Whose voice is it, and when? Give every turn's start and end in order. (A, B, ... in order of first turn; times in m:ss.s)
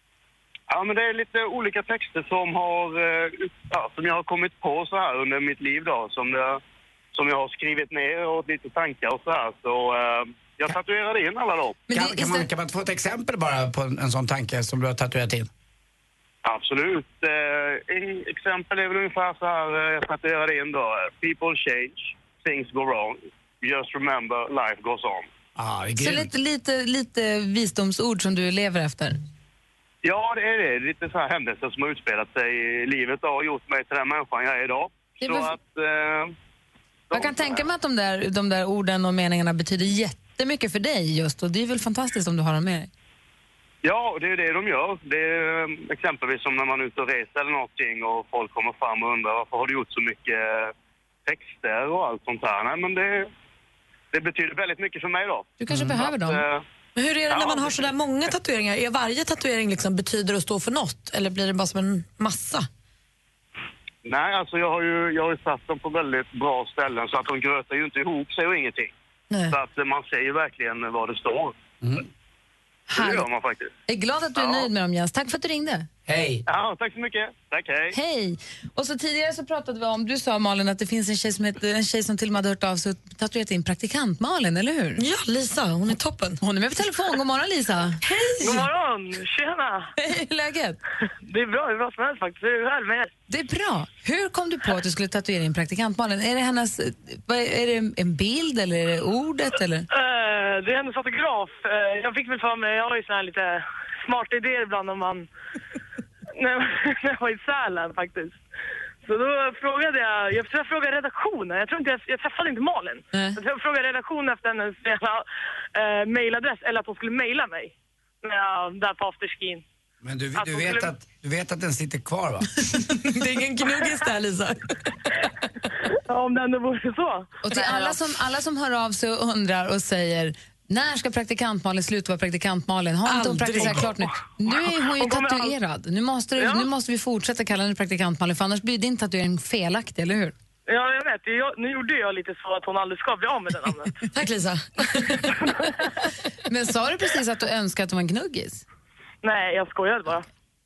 0:00.7-0:06.6 A
0:07.1-0:11.8 A
0:11.9-0:12.5 B
0:11.9-0:15.5 C
0:16.4-0:25.3 A
0:25.6-0:26.3 C
0:26.0-0:29.2 B
0:30.0-0:36.3 A
0:35.2-0:35.6 B
0:37.1-0:37.7 A
0:37.1-0:42.9 B
0:43.8-0:50.7 A
0:51.3-0:53.3 A
0:54.1-0:56.6 A
0:55.6-0:56.4 B
0:57.0-1:02.7 D
0:57.3-0:57.8 A
1:04.0-1:08.9 A
1:09.5-1:11.6 A
1:12.9-1:13.3 B
1:12.9-1:13.7 A
1:13.9-1:15.9 B
1:14.4-1:14.7 A
1:16.1-1:16.4 C
1:16.5-1:18.0 A
1:17.9-1:25.0 B
1:25.0-1:26.4 D
1:26.4-1:28.0 B
1:28.3-1:28.6 D
1:28.4-1:29.9 E
1:30.0-1:30.8 B
1:31.3-1:33.1 E
1:33.3-1:39.9 B
1:39.9-1:45.3 E
1:46.4-1:48.4 E
1:49.0-1:59.6 E
1:53.1-1:53.4 B
2:00.0-2:02.5 C
2:00.4-2:00.9 E
2:02.8-2:04.6 D
2:06.1-2:07.9 E
2:07.4-2:20.4 B
2:13.0-2:14.0 D
2:14.9-2:15.5 E
2:16.4-2:16.7 E
2:20.7-2:23.9 E
2:24.1-2:25.4 D
2:26.5-2:28.6 B
2:29.2-2:30.3 E